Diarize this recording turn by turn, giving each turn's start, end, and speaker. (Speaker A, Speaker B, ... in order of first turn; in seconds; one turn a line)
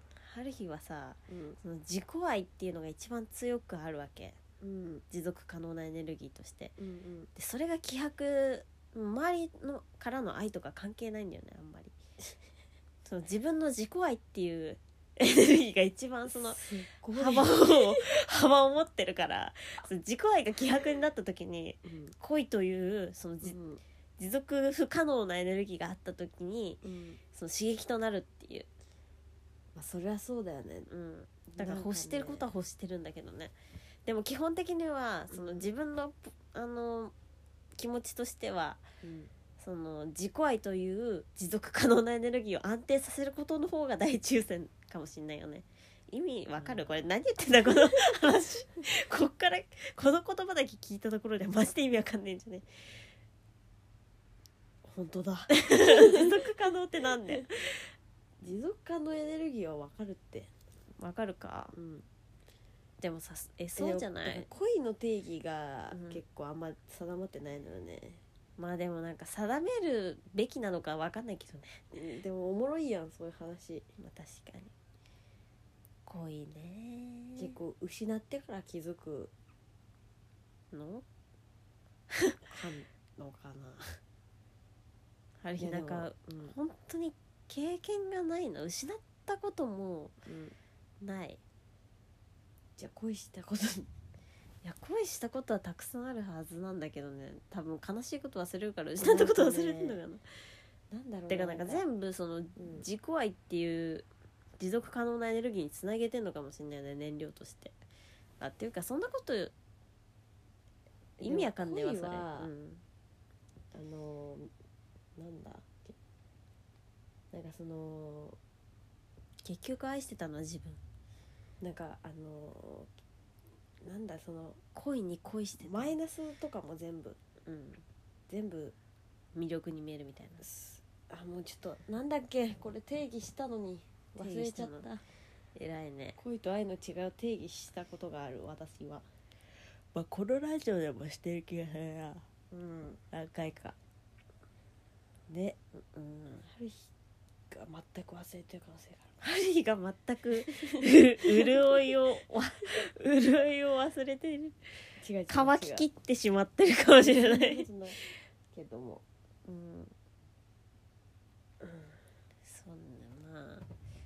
Speaker A: 0.1-4.4
Speaker B: 1.3-1.6
Speaker B: 4.6-5.0
Speaker A: 5.1-6.8
Speaker B: 6.8-7.3
Speaker A: 7.3-11.9
Speaker A: 13.0-23.6
Speaker B: 16.3-18.0
Speaker B: 21.8-22.1
Speaker B: 23.4-23.8
Speaker A: 24.2-28.7
Speaker B: 26.8-27.2
Speaker B: 29.7-30.9
Speaker A: 30.9-33.5
Speaker B: 31.6-32.5
Speaker A: 34.0-37.1
Speaker B: 35.3-35.7
Speaker A: 37.8-38.8
Speaker B: 39.0-39.3
Speaker A: 39.6-52.7
Speaker B: 46.6-46.8
Speaker B: 54.8-56.4
Speaker A: 55.6-57.8
Speaker B: 58.4-60.5
Speaker A: 61.0-61.7
Speaker B: 61.7-62.0
Speaker A: 63.0-64.5
Speaker B: 63.8-68.2
Speaker A: 65.9-66.2
Speaker A: 68.6-71.8
Speaker B: 71.9-73.9
Speaker A: 74.0-74.7
Speaker A: 76.0-77.5
Speaker B: 77.4-79.3
Speaker A: 80.7-81.0
Speaker A: 82.1-82.4
Speaker B: 82.5-83.8
Speaker A: 85.4-90.2
Speaker B: 85.6-86.5
Speaker B: 90.2-90.5
Speaker A: 91.0-91.4
Speaker B: 92.8-93.9
Speaker A: 94.6-100.2
Speaker B: 99.0-100.0
Speaker B: 100.9-101.8
Speaker A: 101.3-104.1
Speaker B: 102.6-102.8
Speaker A: 104.6-107.7
Speaker A: 108.4-109.5
Speaker B: 111.2-112.5
Speaker A: 111.2-112.8
Speaker B: 113.7-114.5
Speaker B: 115.2-116.0
Speaker B: 117.3-118.4
Speaker A: 119.4-120.8
Speaker B: 121.6-122.9
Speaker B: 123.8-124.6
Speaker A: 124.7-125.9
Speaker B: 125.6-127.2
Speaker A: 127.4-127.8
Speaker B: 128.3-128.7
Speaker A: 129.3-130.4
Speaker B: 130.4-135.0
Speaker A: 134.2-134.8
Speaker A: 135.5-136.2
Speaker B: 136.2-139.1
Speaker A: 139.9-142.3
Speaker B: 142.5-143.0
Speaker A: 143.1-143.8
Speaker B: 145.3-145.6
Speaker A: 145.7-146.5
Speaker B: 146.4-146.9
Speaker B: 147.5-149.1
Speaker A: 149.2-154.6
Speaker B: 155.0-155.8
Speaker A: 155.3-157.7
Speaker B: 157.0-158.0
Speaker B: 158.5-159.0
Speaker A: 159.4-159.9
Speaker B: 161.6-161.9
Speaker A: 162.4-163.7